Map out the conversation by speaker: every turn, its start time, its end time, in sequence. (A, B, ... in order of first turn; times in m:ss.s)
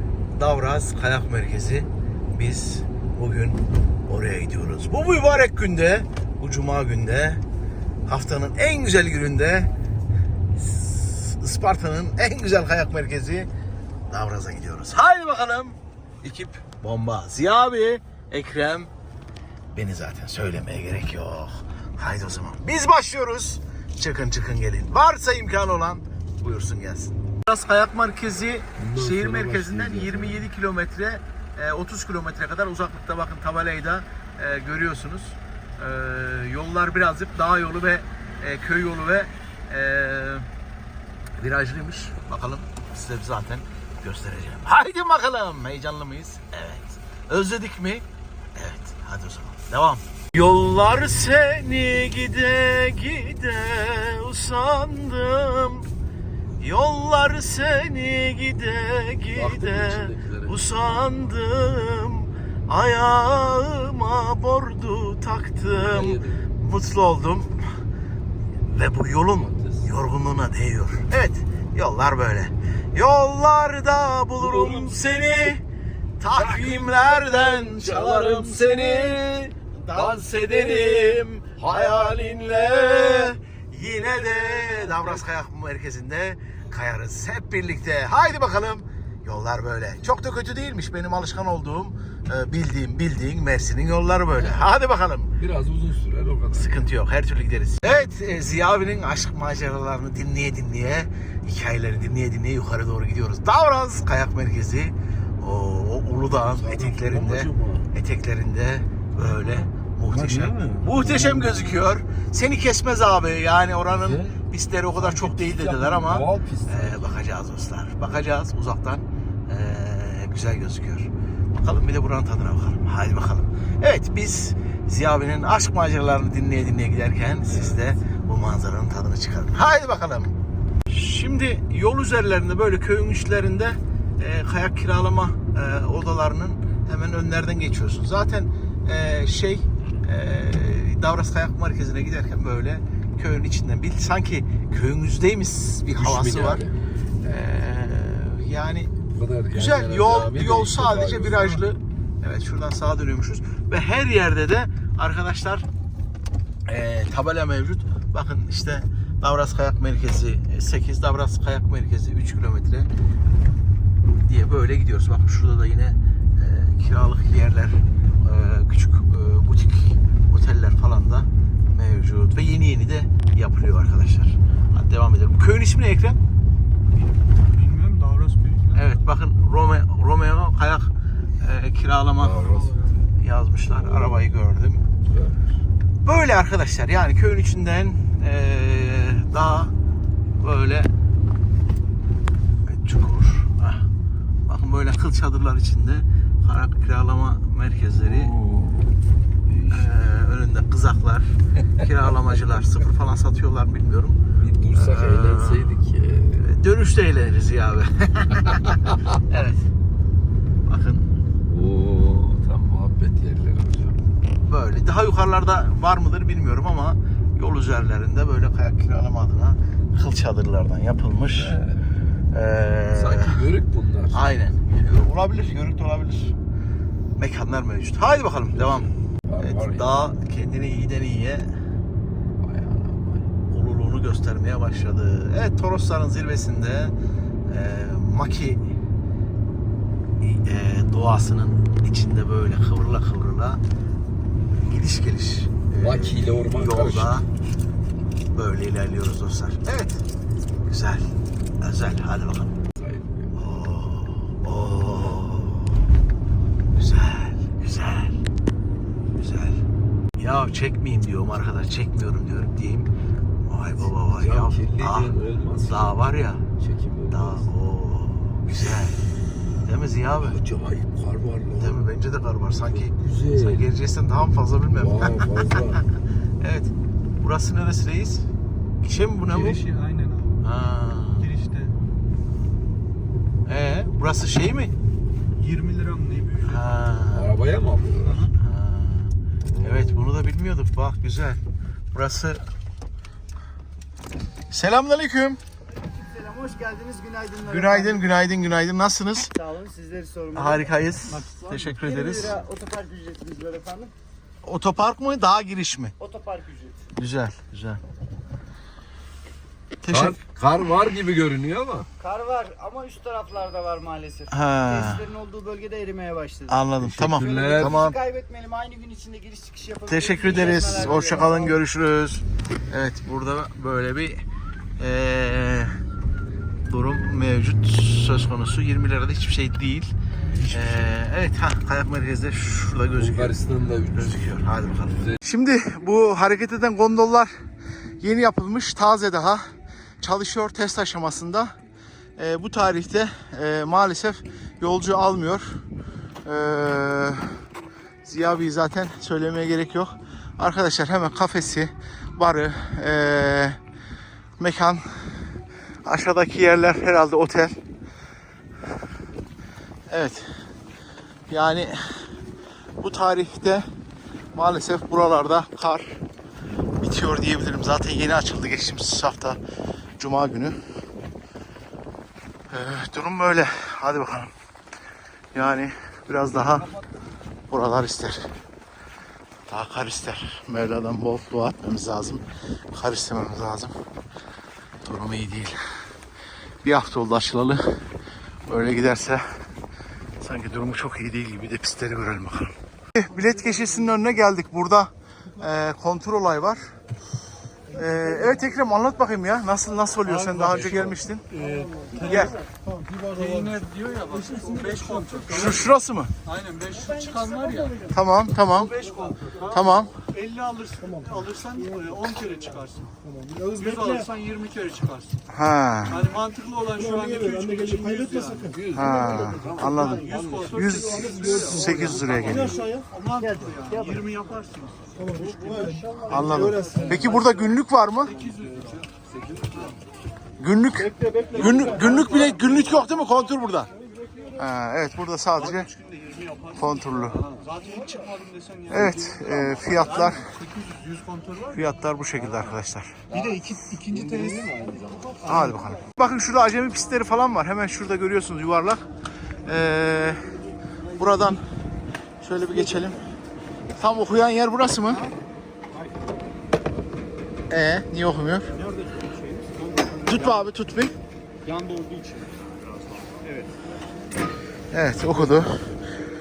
0:00.3-0:07.4 A
0:08.0-0:09.7 A
0:10.5-0:13.5 A
0:14.1-0:18.9 A
0:19.7-0:40.5 A
0:28.8-0:30.4 B
0:41.4-0:55.9 A
0:56.6-1:07.7 A
0:59.3-1:00.6 B
1:05.9-1:06.4 B
1:08.6-1:15.6 A
1:09.3-1:09.9 B
1:14.4-1:15.0 B
1:16.2-1:35.4 A
1:16.4-1:19.3 B
1:20.0-1:23.2 B
1:35.4-1:36.8 B
1:36.5-2:10.4 A
1:46.4-1:47.9 B
1:50.2-1:51.6 B
1:54.0-1:54.4 B
1:55.0-1:57.1 B
2:10.9-2:26.6 A
2:25.9-2:26.8 B
2:27.2-2:28.9 A
2:28.9-2:31.6 B
2:29.5-2:35.6 A
2:36.7-2:42.9 A
2:44.2-2:56.2 A
2:57.5-2:58.8 C
2:58.7-3:04.9 A
3:02.2-3:03.0 B
3:03.7-3:04.3 B
3:05.0-3:05.5 B
3:06.0-3:09.7 A
3:10.4-3:10.9 A
3:12.6-3:13.8 A
3:14.4-3:18.4 A
3:18.0-3:18.9 B
3:19.5-3:19.9 B
3:19.7-3:24.2 A
3:24.4-3:26.5 B
3:24.7-3:25.8 A
3:26.4-3:29.7 A
3:28.5-3:28.9 B
3:30.6-3:31.1 A
3:31.4-3:34.0 B
3:34.4-3:41.6 A
3:41.3-3:41.9 B
3:42.3-3:43.4 A
3:42.9-3:44.4 B
3:44.1-3:46.3 A
3:47.2-3:51.5 A
3:48.6-3:49.8 B
3:52.4-3:53.3 B
3:53.5-3:56.9 A
3:57.5-3:58.6 A
4:00.2-4:03.6 A
4:04.6-4:07.2 A
4:05.8-4:07.2 B
4:08.3-4:10.0 A
4:10.7-4:12.6 A
4:12.7-4:13.3 B
4:13.3-4:15.8 A
4:16.7-4:18.2 A
4:19.1-4:19.6 A
4:20.2-4:22.9 A
4:23.4-4:26.5 A
4:24.0-4:26.0 B
4:26.6-4:27.4 B
4:27.1-4:29.0 A
4:29.6-4:30.4 A
4:30.2-4:31.8 B
4:31.5-4:35.8 A
4:32.6-4:33.6 B
4:34.8-4:35.8 B
4:36.4-4:38.2 A
4:38.8-4:39.6 A
4:39.3-4:40.4 C
4:40.4-4:41.3 A
4:41.2-4:41.7 C
4:43.4-4:44.8 A
4:45.4-4:46.6 C
4:46.4-4:47.4 A
4:47.1-4:48.3 B
4:48.0-4:48.3 C
4:48.3-4:51.4 A
4:49.5-4:49.9 B
4:51.9-4:52.4 A
4:54.5-4:55.4 A
4:55.8-4:58.1 D
4:57.4-4:59.3 A
4:59.3-5:03.9 D
5:00.3-5:02.4 A
5:04.4-5:06.0 A
5:06.0-5:06.8 D
5:07.0-5:07.8 A
5:09.8-5:10.2 A
5:09.9-5:11.9 B
5:12.0-5:16.6 D
5:14.3-5:15.1 A
5:16.5-5:18.0 A
5:16.8-5:17.8 B
5:17.2-5:21.5 D
5:19.9-5:24.2 A
5:24.8-5:25.8 A
5:26.6-5:37.3 A
5:33.0-5:34.2 B
5:38.0-5:39.4 A
5:40.0-5:41.5 A
5:42.2-5:45.6 A
5:46.2-5:47.4 A
5:48.0-5:53.6 A
5:54.4-5:54.8 A
5:55.8-5:57.6 A
5:59.9-6:00.3 A
6:01.3-6:02.0 A
6:02.8-6:03.6 A
6:04.3-6:06.0 A
6:06.8-6:09.4 A
6:10.0-6:10.6 A
6:12.5-6:14.3 A
6:15.3-6:16.7 A
6:17.5-6:18.3 A
6:19.5-6:23.7 A
6:24.8-6:25.6 A
6:26.6-6:27.6 A
6:28.5-6:29.2 A
6:30.2-6:36.7 A
6:37.7-6:41.2 A
6:42.0-6:42.4 A
6:43.0-6:45.5 C
6:45.3-6:46.1 A
6:46.2-6:47.8 C
6:47.9-6:48.8 A
6:48.8-6:49.5 C
6:49.5-6:49.9 A
6:50.0-6:55.2 C
6:55.3-6:56.1 A
6:55.9-6:58.6 C
6:58.5-6:59.8 B
6:58.7-7:02.6 A
6:59.9-7:01.8 C
7:02.7-7:06.0 C
7:03.2-7:04.0 D
7:06.0-7:08.2 A
7:08.1-7:08.8 C
7:10.4-7:13.7 A
7:14.4-7:15.7 A
7:15.7-7:16.4 C
7:16.5-7:17.2 A
7:17.3-7:19.3 C
7:18.7-7:20.3 A
7:20.1-7:21.5 C
7:21.5-7:23.0 A
7:23.1-7:24.9 B
7:23.5-7:24.2 C
7:25.2-7:28.8 A
7:29.4-7:30.4 A
7:31.0-7:31.4 A
7:32.2-7:33.0 A
7:33.8-7:35.1 A
7:37.5-7:38.6 A
7:40.0-7:40.9 A
7:41.4-7:42.4 D
7:43.1-7:43.4 D
7:44.7-7:45.7 A